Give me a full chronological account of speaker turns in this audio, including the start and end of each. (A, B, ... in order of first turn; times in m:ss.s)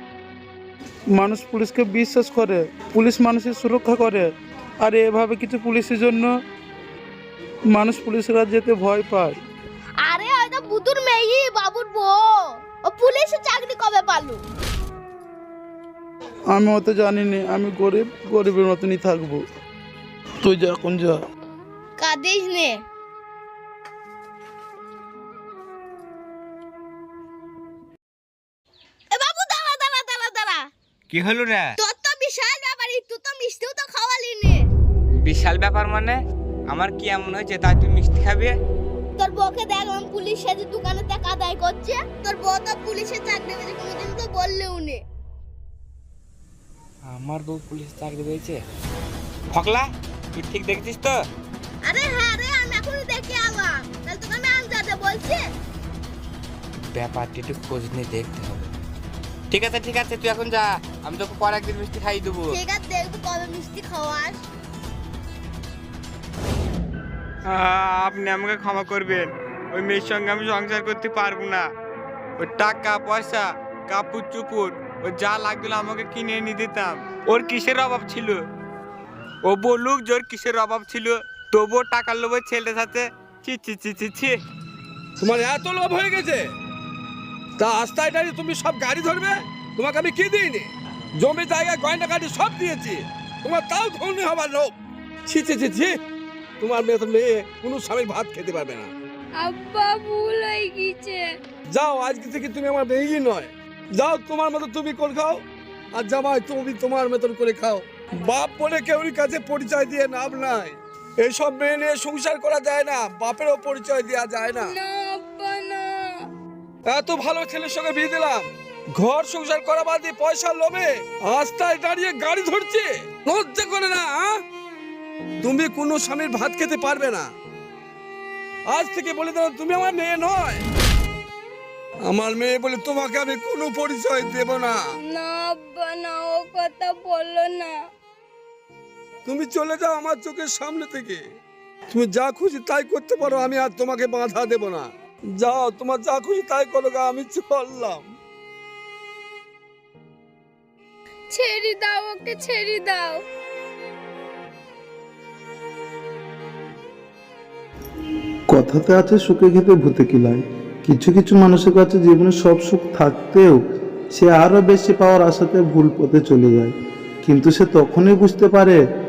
0:01.1-0:04.3 A
0:04.8-0:06.3 A
0:07.7-0:09.3 A
0:10.0-0:14.4 B
0:16.5-0:19.4 A
0:20.4-0:21.2 A
0:22.0-0:22.8 B
0:29.1-0:30.7 B
0:31.1-0:31.7 C
0:31.8-0:34.7 B
0:35.2-0:38.5 C
0:39.2-0:45.0 B
0:47.0-0:48.6 C
0:49.5-0:51.2 C
0:51.8-0:55.4 B
0:56.9-0:58.7 C
0:59.5-1:02.6 C
1:02.5-1:04.4 B
1:07.4-1:11.7 C
1:12.4-1:18.4 C
1:19.4-1:24.4 C
1:25.2-1:26.4 D
1:27.6-1:34.7 D
1:35.2-1:36.0 D
1:36.6-1:38.9 D
1:39.4-1:41.3 E
1:41.7-1:45.4 D
1:45.9-1:54.7 D
1:54.6-1:56.2 E
1:56.9-2:04.4 D
2:05.4-2:07.3 D
2:08.7-2:10.6 D
2:12.1-2:14.8 D
2:15.0-2:17.8 E
2:19.2-2:21.2 D
2:21.9-2:28.0 D
2:31.3-2:33.2 E
2:38.5-2:43.6 F
2:44.1-2:48.8 F